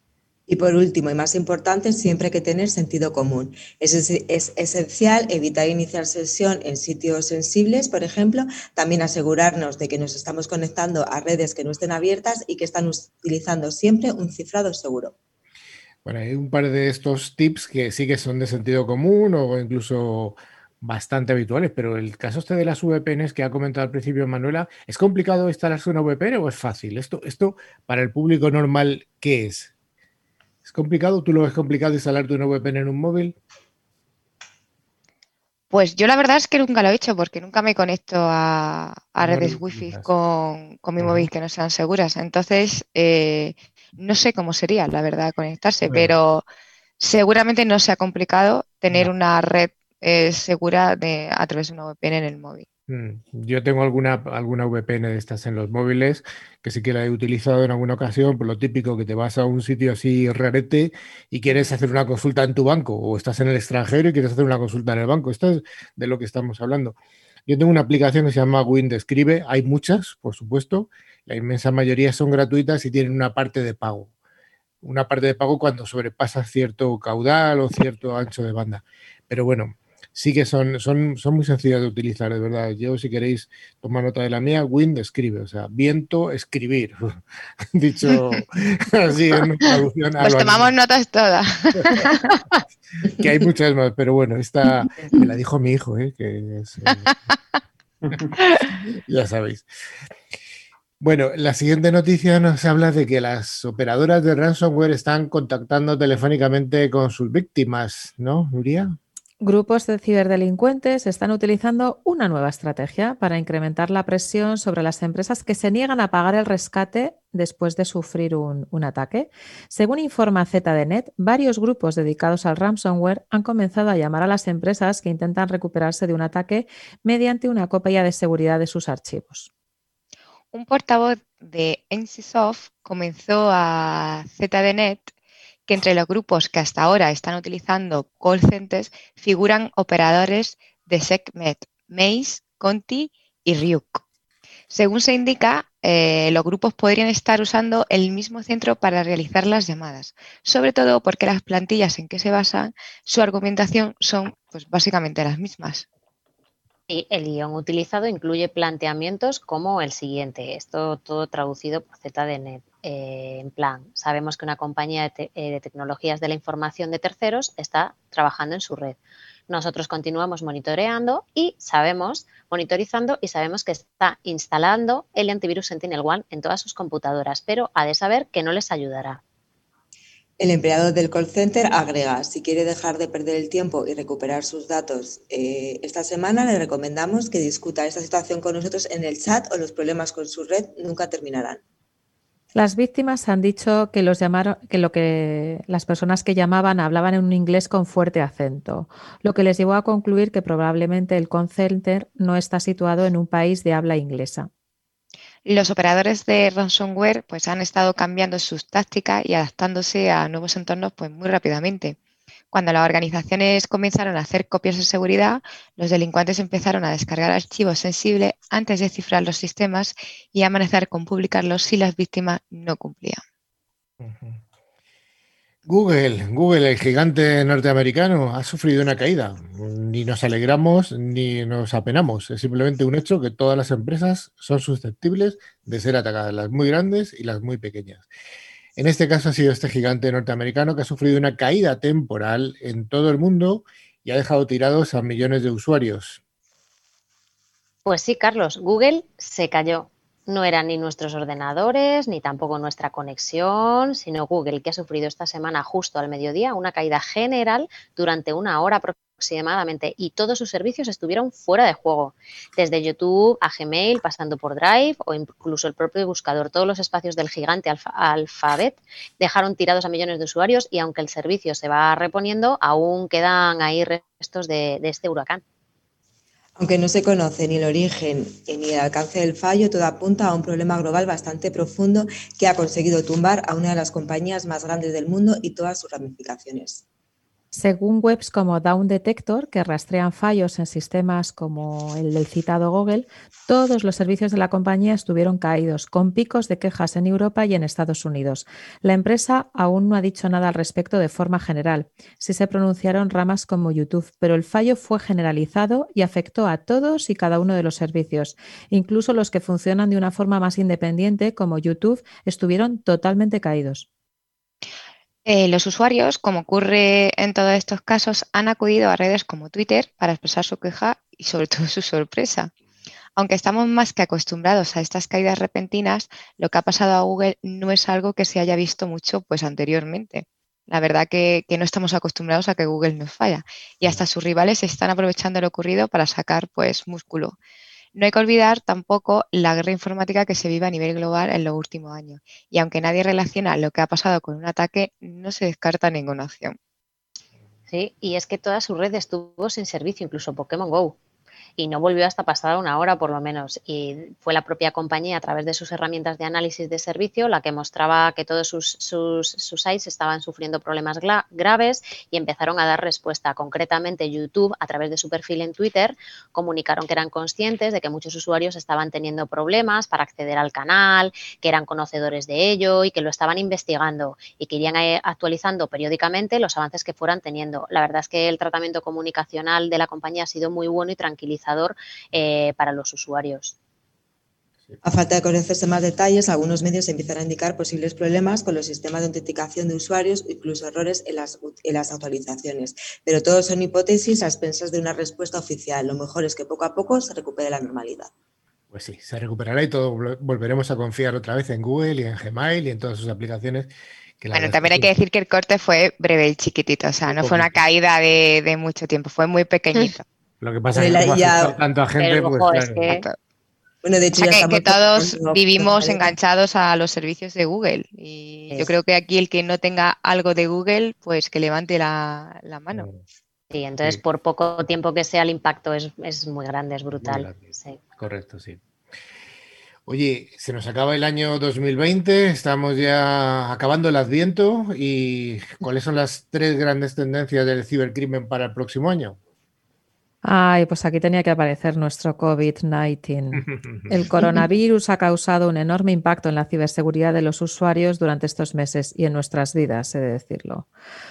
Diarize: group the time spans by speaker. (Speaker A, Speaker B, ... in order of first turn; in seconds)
Speaker A: 0.5-15.1, 180.4-191.6, 276.6-286.8, 384.8-398.1, 410.7-411.5, 413.8-416.1
Speaker B: 16.0-29.7, 30.6-33.4, 39.2-40.0, 41.0-41.3, 45.9-46.1, 52.9-74.1, 74.8-87.2, 87.7-90.7, 91.7-92.1, 93.2-97.1, 99.1-99.7, 101.0-109.0, 224.0-224.4, 225.6-238.1, 238.8-246.2, 398.7-404.9, 407.1-407.5, 410.4-412.9, 422.7-423.0, 427.0-428.6, 429.9-439.2, 443.4-443.9
Speaker C: 35.7-46.4, 47.0-52.6, 90.2-92.6, 98.4-98.7, 130.5-135.1, 135.7-144.0, 144.7-155.8, 205.4-211.9, 212.5-223.2, 315.2-322.5, 323.1-337.4, 337.9-346.6, 404.3-410.0, 414.2-422.9
Speaker D: 109.4-129.5, 192.5-204.5, 287.5-313.9, 440.2-450.7
Speaker E: 156.9-169.0, 169.5-179.2, 247.8-275.4, 347.7-351.0, 351.6-383.5, 412.0-413.0, 423.5-427.8